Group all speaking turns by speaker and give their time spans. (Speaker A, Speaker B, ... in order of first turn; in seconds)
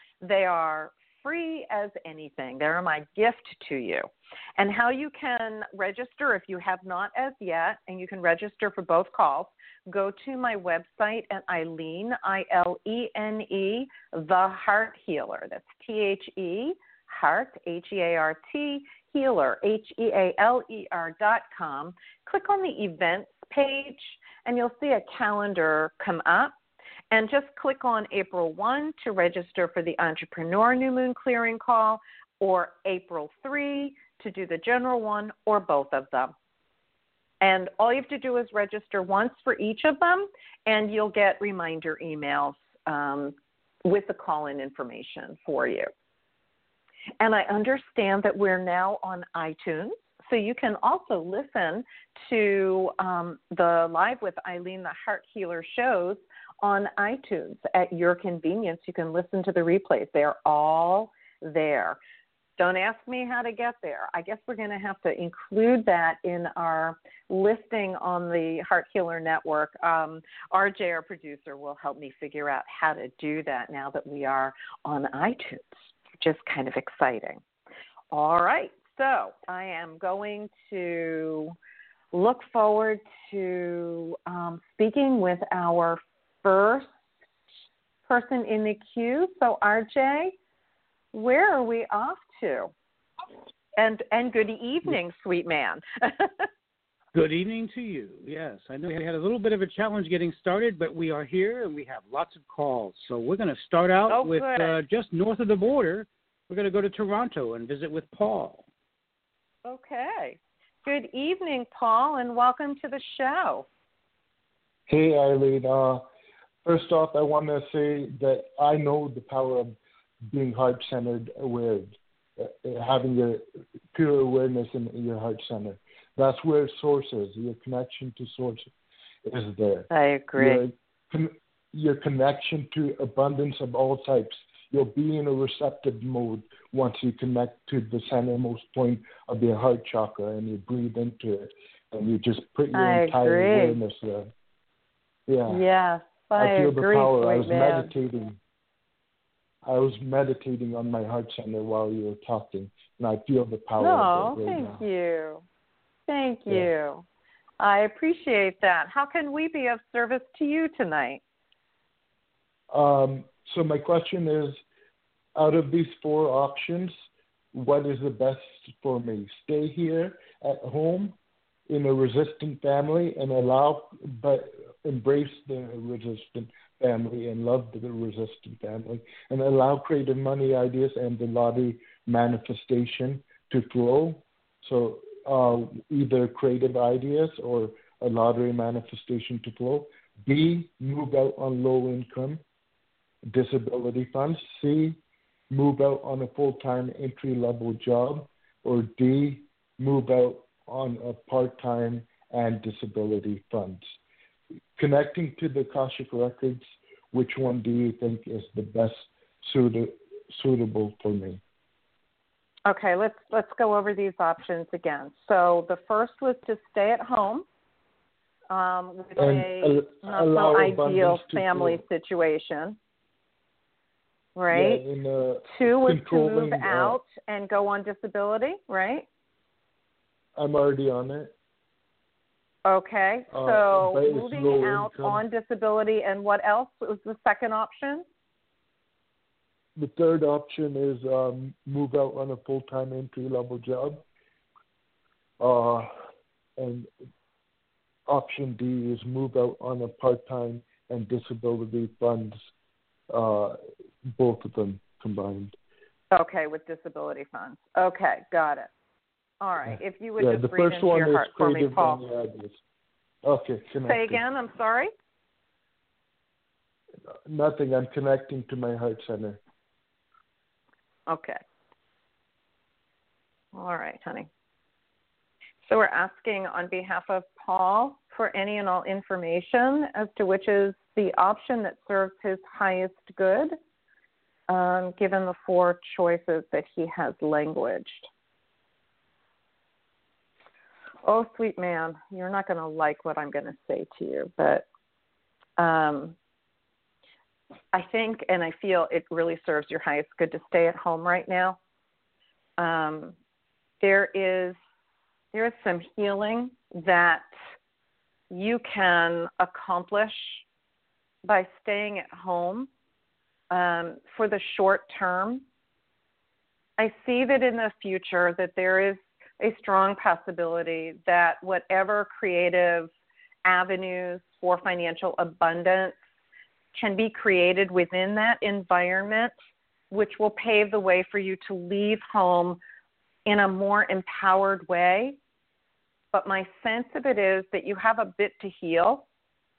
Speaker A: 0.2-26.6, 27.1-36.3, 37.4-45.9, 47.2-62.0, 62.6-77.4, 78.1-81.5, 82.1-86.9, 88.1-90.3, 91.1-92.7, 93.8-96.5, 104.1-104.8, 109.7-113.7, 129.9-130.6, 142.7-143.8, 145.5-147.9, 153.8-155.4, 156.1-157.1, 157.6-161.2, 212.7-217.4, 218.5-222.8, 224.4-224.8, 225.5-229.1, 232.7-238.1, 256.1-258.7, 259.4-262.0, 263.9-264.9, 271.1-271.4, 273.5-274.3, 275.7-283.6, 284.5-288.1, 291.1-294.6, 295.6-296.2, 297.7-301.6, 302.6-303.1, 303.8-304.6, 305.3-307.3, 308.3-310.4, 311.2-312.7, 313.5-315.4, 316.8-322.9, 323.4-325.9, 326.8-329.3, 329.9-332.6, 333.3-335.2, 336.1-339.1
Speaker B: 97.1-108.7
Speaker C: 114.9-116.0, 116.6-119.8, 120.3-128.7, 129.2-144.3, 145.3-145.6, 146.4-148.4, 149.6-154.8, 162.7-164.6, 165.4-166.9, 167.5-171.2, 171.7-192.4, 193.3-203.9, 204.8-211.4, 219.2-221.8, 224.5-227.0, 230.4-231.3, 233.3-235.2, 239.8-244.1, 245.4-245.9, 246.6-246.9, 248.1-252.4, 253.1-255.6, 259.7-262.6, 263.2-264.2, 267.2-269.4